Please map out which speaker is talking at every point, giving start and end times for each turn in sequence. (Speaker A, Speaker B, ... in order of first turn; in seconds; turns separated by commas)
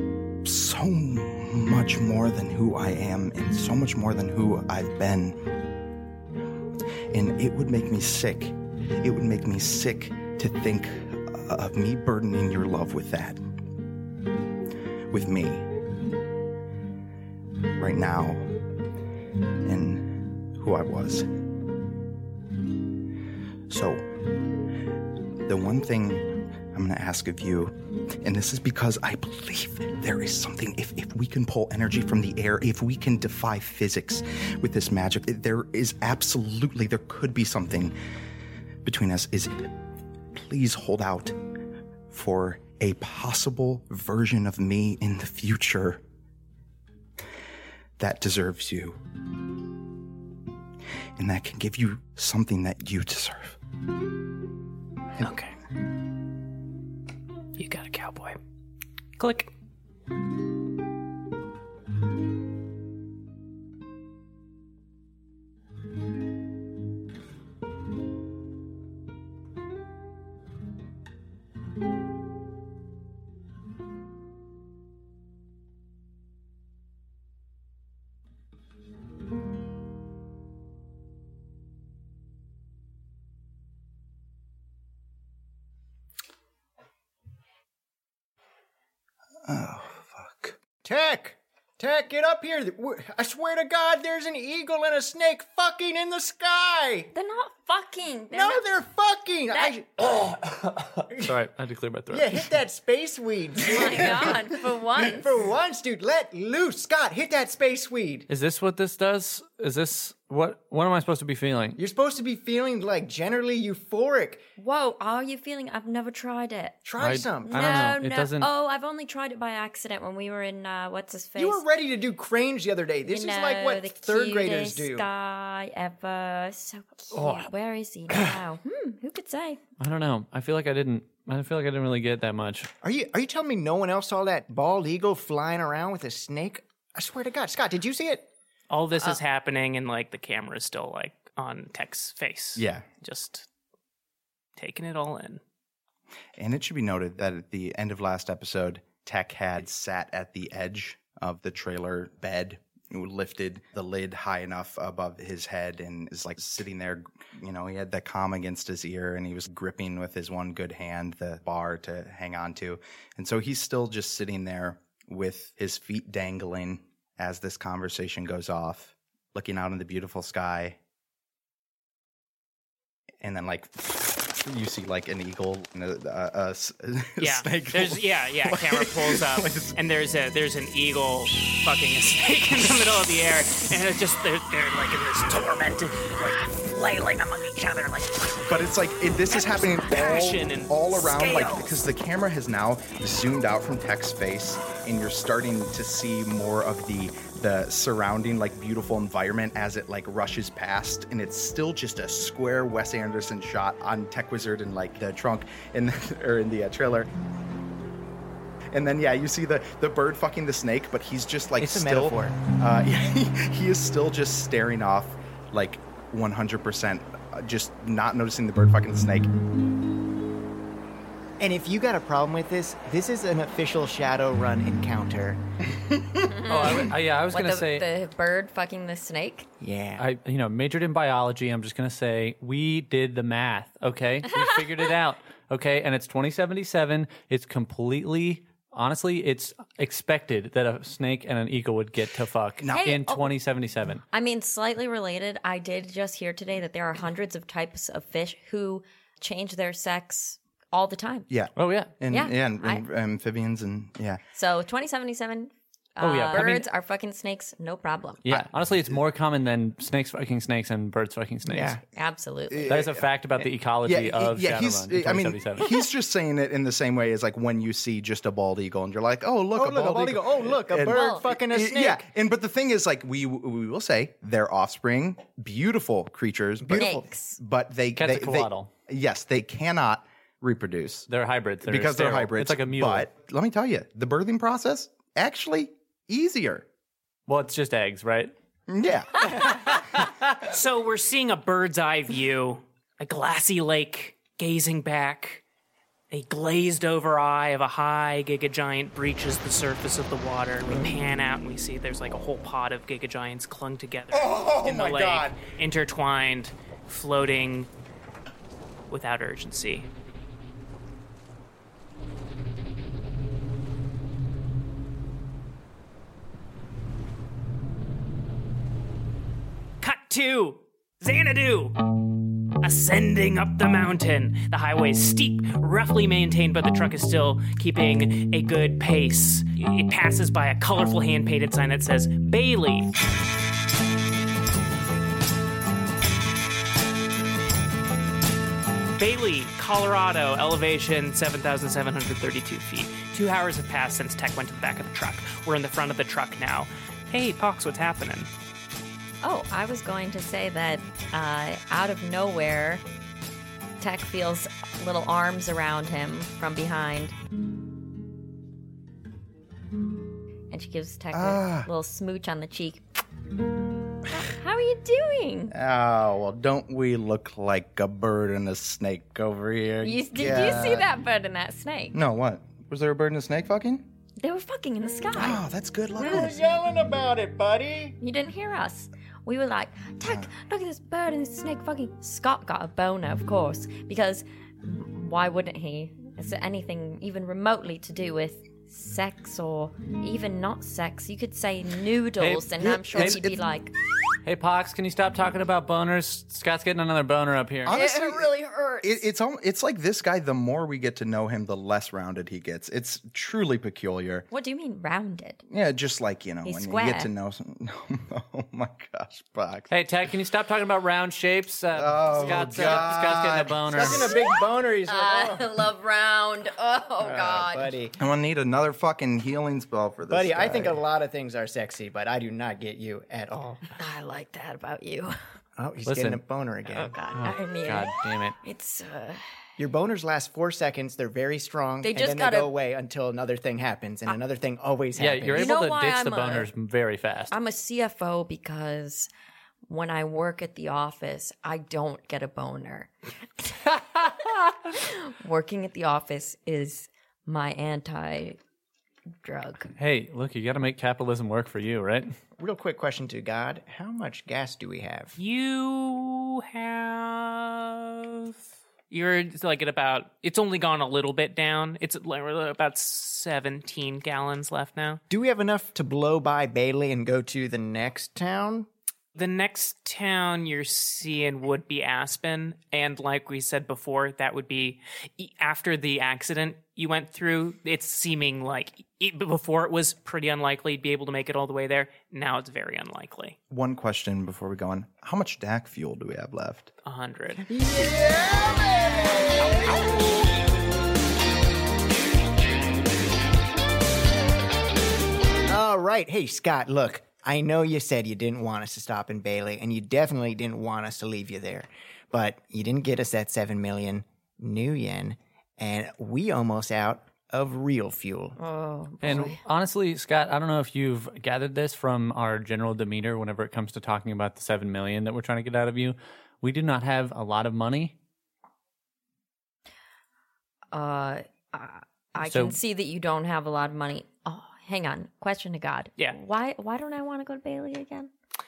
Speaker A: 0.4-5.5, Speaker A: 7.1-13.4, Speaker A: 15.1-15.7, Speaker A: 17.7-18.5, Speaker A: 19.6-21.3, Speaker A: 23.7-24.1, Speaker A: 25.4-38.0, Speaker A: 38.8-39.7, Speaker A: 40.3-41.4, Speaker A: 42.1-46.0, Speaker A: 48.0-49.0, Speaker A: 51.2-53.6, Speaker B: 55.2-55.5, Speaker B: 57.5-58.4, Speaker B: 59.2-59.5, Speaker A: 89.5-90.6, Speaker C: 90.8-97.1, Speaker D: 97.1-98.6, Speaker C: 98.3-100.3, Speaker E: 100.4-102.5, Speaker C: 102.1-108.3, Speaker D: 103.6-105.3, Speaker E: 108.3-111.8, Speaker C: 111.8-114.4, Speaker D: 114.6-116.8, Speaker C: 116.8-118.0, Speaker E: 117.0-118.5, Speaker D: 117.4-121.6, Speaker C: 121.4-125.1, Speaker D: 123.0-129.6, Speaker E: 127.1-127.5, Speaker E: 129.8-132.7, Speaker C: 132.8-138.3, Speaker B: 138.7-143.5, Speaker A: 142.6-142.8, Speaker B: 144.6-145.4, Speaker A: 146.3-170.8, Speaker A: 173.2-179.8, Speaker B: 177.2-188.5, Speaker A: 188.4-207.1, Speaker B: 189.3-191.8, Speaker A: 208.7-219.3, Speaker C: 211.6-212.4, Speaker C: 221.4-225.4, Speaker D: 226.3-229.5, Speaker E: 226.4-227.9, Speaker C: 229.6-230.0, Speaker E: 230.0-244.0, Speaker A: 242.6-242.9, Speaker D: 242.7-243.3, Speaker D: 244.1-251.3, Speaker A: 251.3-254.2, Speaker E: 251.6-251.9, Speaker D: 252.1-252.8, Speaker D: 254.3-258.2, Speaker E: 256.0-256.7, Speaker E: 258.2-261.8, Speaker A: 258.2-258.9, Speaker C: 261.4-261.8, Speaker D: 261.9-262.8, Speaker A: 262.5-263.1, Speaker E: 262.7-265.7, Speaker A: 263.8-281.1, Speaker C: 269.5-272.0, Speaker D: 270.8-271.2, Speaker C: 276.6-277.1, Speaker D: 276.8-277.4, Speaker E: 278.0-278.7, Speaker E: 281.1-283.1, Speaker A: 281.6-286.6, Speaker E: 287.3-288.3, Speaker A: 288.7-289.8, Speaker E: 289.4-290.3, Speaker B: 290.5-295.4, Speaker B: 296.1-307.7, Speaker A: 304.1-305.4, Speaker B: 308.9-309.9, Speaker B: 319.8-321.8, Speaker B: 322.6-332.9, Speaker B: 338.9-348.3, Speaker D: 349.2-352.8, Speaker D: 353.8-357.1, Speaker D: 360.5-362.8, Speaker A: 361.1-361.7, Speaker D: 364.1-365.5, Speaker A: 365.5-370.9, Speaker D: 369.8-371.9, Speaker A: 371.9-373.8, Speaker D: 374.2-375.4, Speaker A: 375.1-376.4, Speaker C: 376.0-378.0, Speaker D: 378.0-393.7, Speaker E: 392.2-393.3, Speaker A: 392.6-393.4, Speaker E: 394.2-397.8, Speaker A: 397.6-404.2, Speaker D: 397.6-399.1, Speaker D: 404.3-405.4, Speaker A: 405.5-409.7, Speaker D: 406.4-407.1, Speaker E: 409.7-414.1, Speaker A: 411.7-413.9, Speaker C: 412.5-412.8, Speaker C: 413.7-415.5, Speaker D: 413.9-417.8, Speaker C: 417.0-418.0, Speaker A: 418.0-420.8, Speaker C: 420.1-423.6, Speaker D: 423.8-425.1, Speaker C: 425.6-426.9, Speaker E: 425.8-426.2, Speaker D: 426.7-429.2, Speaker E: 427.1-428.4, Speaker C: 429.6-435.5, Speaker D: 431.8-432.5, Speaker E: 434.9-437.3, Speaker D: 435.3-436.5, Speaker D: 437.3-439.1, Speaker D: 439.7-444.1, Speaker D: 444.7-448.4, Speaker D: 449.2-449.7, Speaker E: 449.8-452.1, Speaker C: 452.4-455.1, Speaker B: 455.2-458.4, Speaker B: 458.9-465.0, Speaker C: 465.1-468.7, Speaker B: 469.1-483.4, Speaker A: 483.5-486.7, Speaker B: 486.8-487.5, Speaker C: 487.5-489.8, Speaker C: 495.5-508.4, Speaker D: 508.4-509.4, Speaker E: 509.0-517.9, Speaker D: 520.7-528.1, Speaker E: 522.2-522.6